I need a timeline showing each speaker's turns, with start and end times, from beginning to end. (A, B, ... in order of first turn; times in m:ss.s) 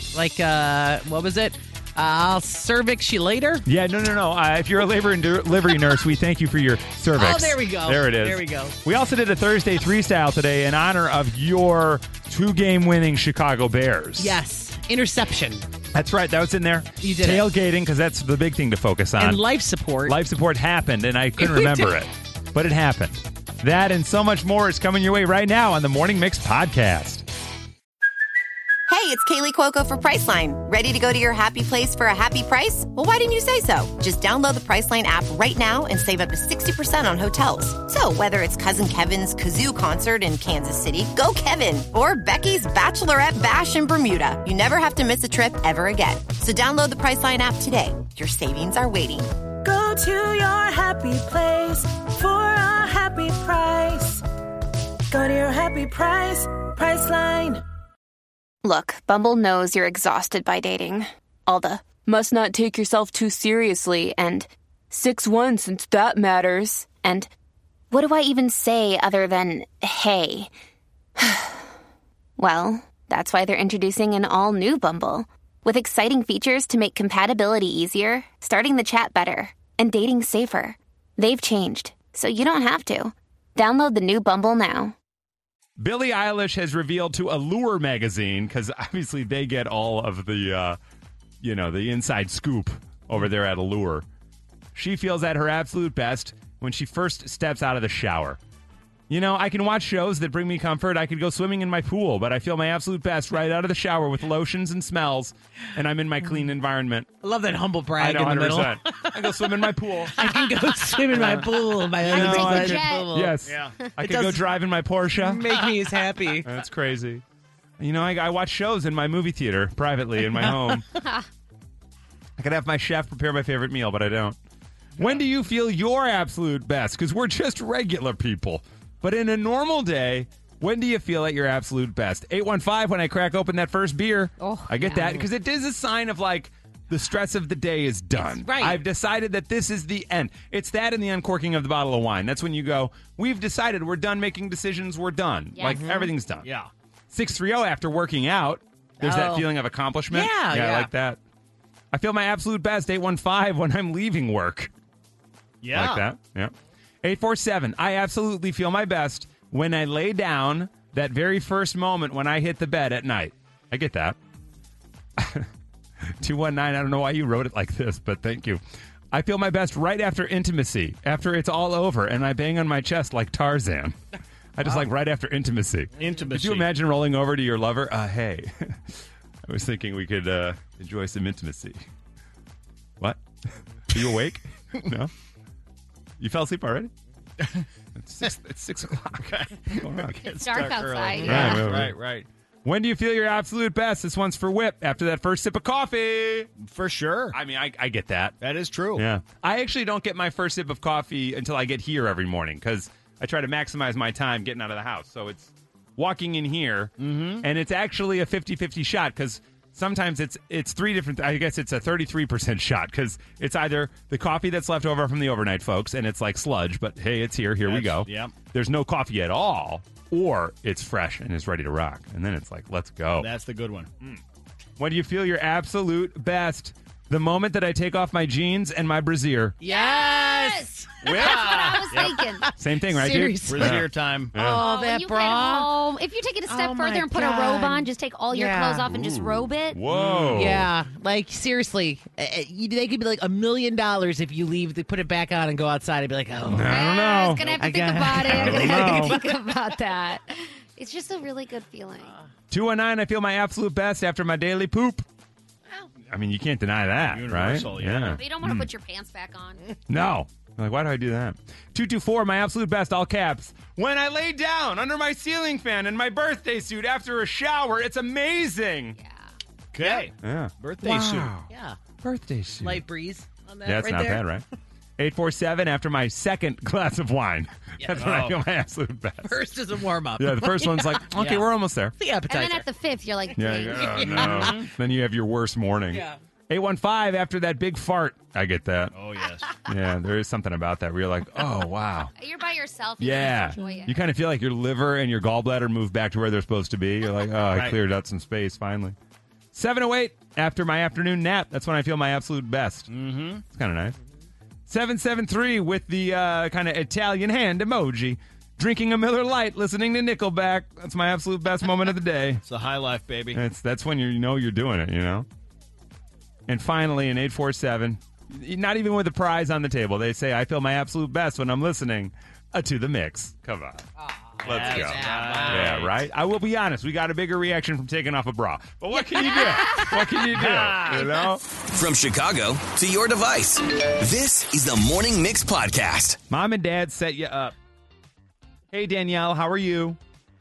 0:00.1-0:03.6 A
0:03.6-0:14.4 B
0:07.2-0:08.8 A
0:14.2-0:15.7 A
0:15.9-0:19.4 B
0:17.0-0:17.5 A
0:19.2-0:20.2 A
0:20.0-0:27.2 B
0:21.6-0:21.8 A
0:28.9-0:49.3 C
0:49.7-0:54.2 D
0:55.1-0:57.6 D
0:58.6-1:07.3 E
1:07.9-1:10.5 E
1:11.2-1:11.7 E
1:12.4-1:24.9 E
1:25.8-1:30.8 B
1:31.4-1:34.1 B
1:34.8-1:38.4 B
1:39.1-1:47.1 B
1:47.2-1:53.4 A
1:48.0-1:50.2 B
1:51.1-1:51.5 B
1:52.0-1:55.5 B
1:52.1-1:53.1 F
1:53.4-1:53.8 G
1:54.0-1:54.4 A
1:55.2-1:56.5 A
1:56.4-1:57.2 B
1:57.8-2:00.8 B
2:00.2-2:00.8 A
2:02.4-2:04.4 B
2:05.0-2:26.5 B
2:14.4-2:15.0 F
2:14.9-2:15.2 A
2:18.3-2:18.8 A
2:25.6-2:25.9 F
2:25.6-2:26.1 A
2:26.4-2:26.7 G
2:27.1-2:31.2 B
2:29.0-2:29.5 A
2:30.1-2:30.9 A
2:31.9-2:34.7 B
2:35.6-2:36.0 G
2:35.7-2:44.2 B
2:45.2-2:45.5 B
2:46.2-2:48.6 B
2:49.1-2:54.0 B
2:54.6-3:01.8 B
2:56.0-2:56.7 G
3:03.9-3:05.1 B
3:06.2-3:06.9 B
3:07.4-3:07.6 G
3:08.0-3:10.2 B
3:09.7-3:12.3 G
3:10.2-3:11.8 F
3:11.2-3:12.0 B
3:12.6-3:16.5 B
3:16.6-3:17.4 G
3:17.3-3:18.4 B
3:18.4-3:19.1 G
3:19.0-3:43.3 B
3:27.0-3:27.5 G
3:37.6-3:38.3 G
3:43.2-3:43.9 G
3:44.8-3:49.6 B
3:49.6-3:55.8 A
3:49.6-3:52.4 F
3:51.0-3:51.7 B
3:51.2-3:52.2 G
3:52.6-3:54.7 B
3:53.5-3:54.3 G
3:54.4-3:59.8 F
3:56.5-3:58.9 A
3:58.9-4:00.7 B
3:59.9-4:00.4 G
4:00.3-4:06.9 A
4:06.5-4:07.6 B
4:06.6-4:12.1 F
4:07.5-4:09.8 A
4:08.2-4:09.2 B
4:12.0-4:12.3 A
4:12.5-4:15.0 B
4:16.1-4:18.7 B
4:17.0-4:18.2 G
4:18.1-4:19.6 F
4:19.9-4:29.0 B
4:29.0-4:29.3 F
4:29.7-4:31.3 G
4:29.8-4:31.5 B
4:31.5-4:31.8 A
4:32.0-4:32.9 B
4:32.6-4:34.3 A
4:33.7-4:34.4 B
4:35.0-4:39.4 B
4:37.8-4:38.1 A
4:38.0-4:38.4 G
4:39.2-4:41.5 A
4:40.2-4:42.0 B
4:42.0-4:42.7 A
4:42.3-4:44.6 F
4:43.4-4:48.9 B
4:43.8-4:44.7 A
4:45.9-4:46.2 A
4:48.9-4:49.5 G
4:49.6-4:52.1 B
4:52.2-4:54.0 F
4:53.0-4:59.0 B
4:57.5-4:57.8 G
4:59.5-5:02.9 B
5:02.9-5:03.4 G
5:03.5-5:04.0 B
5:04.7-5:12.4 B
5:12.4-5:13.4 G
5:13.3-5:15.3 B
5:16.5-5:23.9 B
5:24.0-5:25.9 A
5:24.4-5:26.0 G
5:24.4-5:31.4 B
5:28.9-5:30.2 F
5:30.4-5:31.1 G
5:31.7-5:36.2 H
5:36.3-5:37.6 B
5:38.7-5:40.0 B